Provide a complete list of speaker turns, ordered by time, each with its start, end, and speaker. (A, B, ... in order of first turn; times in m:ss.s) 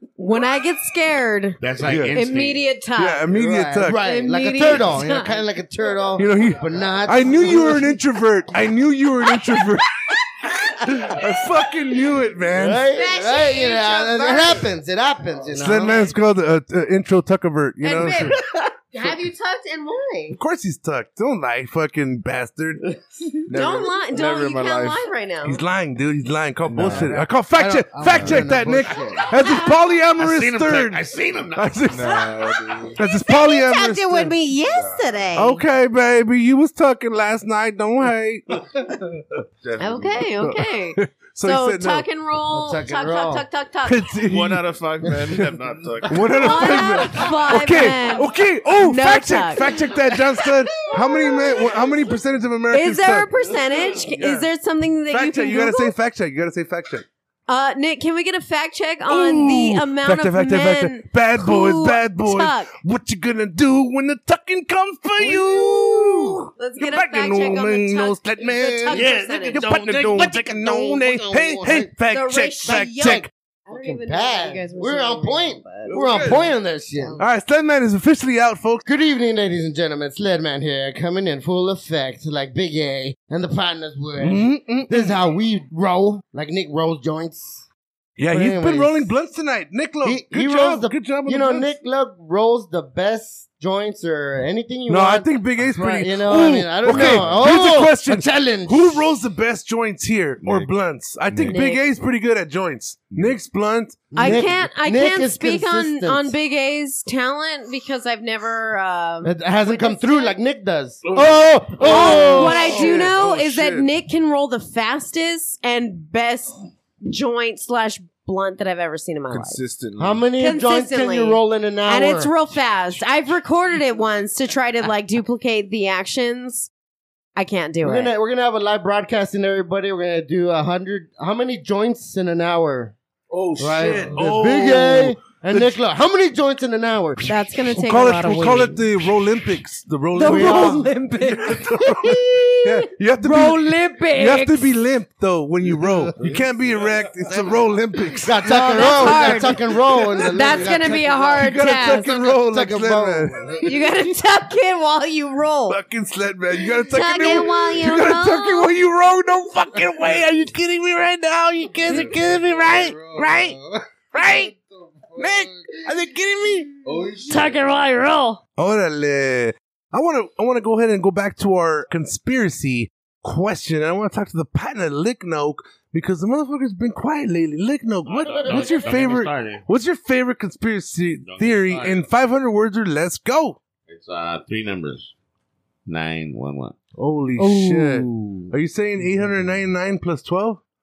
0:00.2-0:01.6 A
0:01.6-0:02.7 B
0:01.8-0:02.2 C
0:02.1-0:03.3 A
0:03.0-0:04.0 C
0:03.3-0:08.0 D
0:03.9-0:05.4 A
0:06.2-0:10.0 C
0:10.8-0:12.9 C
0:12.5-0:16.1 D
0:12.9-0:14.7 A
0:15.6-0:18.3 C
0:17.8-0:20.4 A
0:18.0-0:18.4 D
0:20.3-0:22.9 C
0:23.5-0:25.1 E
0:23.5-0:25.6 A
0:25.4-0:34.3 C
0:26.6-0:27.2 E
0:26.7-0:29.3 D
0:28.0-0:28.5 E
0:29.2-0:29.8 A
0:30.2-0:31.8 B
0:31.9-0:33.0 E
0:32.9-0:35.6 A
0:34.6-0:35.0 E
0:35.4-0:39.2 C
0:39.6-0:40.4 E
0:39.8-0:44.1 A
0:40.4-0:42.0 C
0:42.5-0:43.5 D
0:43.8-0:44.8 C
0:44.2-0:47.0 E
0:46.0-0:53.3 C
0:46.4-0:49.8 A
0:50.8-0:51.9 A
0:52.7-0:55.9 A
0:54.2-0:54.5 C
0:55.1-0:57.0 C
0:57.5-1:02.7 A
0:59.0-1:13.3 C
1:05.3-1:09.6 A
1:08.9-1:11.9 D
1:12.1-1:16.0 A
1:13.7-1:17.2 D
1:15.9-1:16.5 C
1:17.0-1:17.3 A
1:17.2-1:18.8 C
1:18.8-1:27.7 D
1:24.2-1:25.2 C
1:28.2-1:31.7 C
1:28.3-1:29.1 D
1:30.0-1:39.2 D
1:34.9-1:44.4 C
1:37.1-1:37.5 E
1:40.4-1:40.7 E
1:41.4-1:41.8 A
1:44.1-1:46.4 D
1:44.2-1:50.4 A
1:49.2-1:53.1 D
1:51.1-1:53.9 C
1:51.8-1:59.6 A
1:59.3-2:00.2 E
2:00.0-2:02.3 D
2:00.4-2:06.7 A
2:07.4-2:08.1 A
2:07.8-2:13.0 D
2:13.3-2:15.8 C
2:13.6-2:17.2 D
2:17.3-2:18.8 A
2:17.7-2:30.8 C
2:20.1-2:24.7 A
2:20.2-2:20.9 D
2:28.1-2:33.6 D
2:28.4-2:32.1 A
2:31.4-2:33.6 C
2:33.6-2:35.8 A
2:35.7-2:43.6 C
2:36.9-2:38.7 A
2:42.0-2:45.8 F
2:44.1-2:44.5 C
2:45.2-2:46.8 C
2:46.8-2:47.6 F
2:47.3-2:48.4 A
2:48.6-3:03.6 C
2:58.0-2:59.6 B
3:01.2-3:02.0 B
3:03.9-3:05.1 B
3:05.8-3:06.8 B
3:06.9-3:10.6 C
3:07.4-3:08.5 D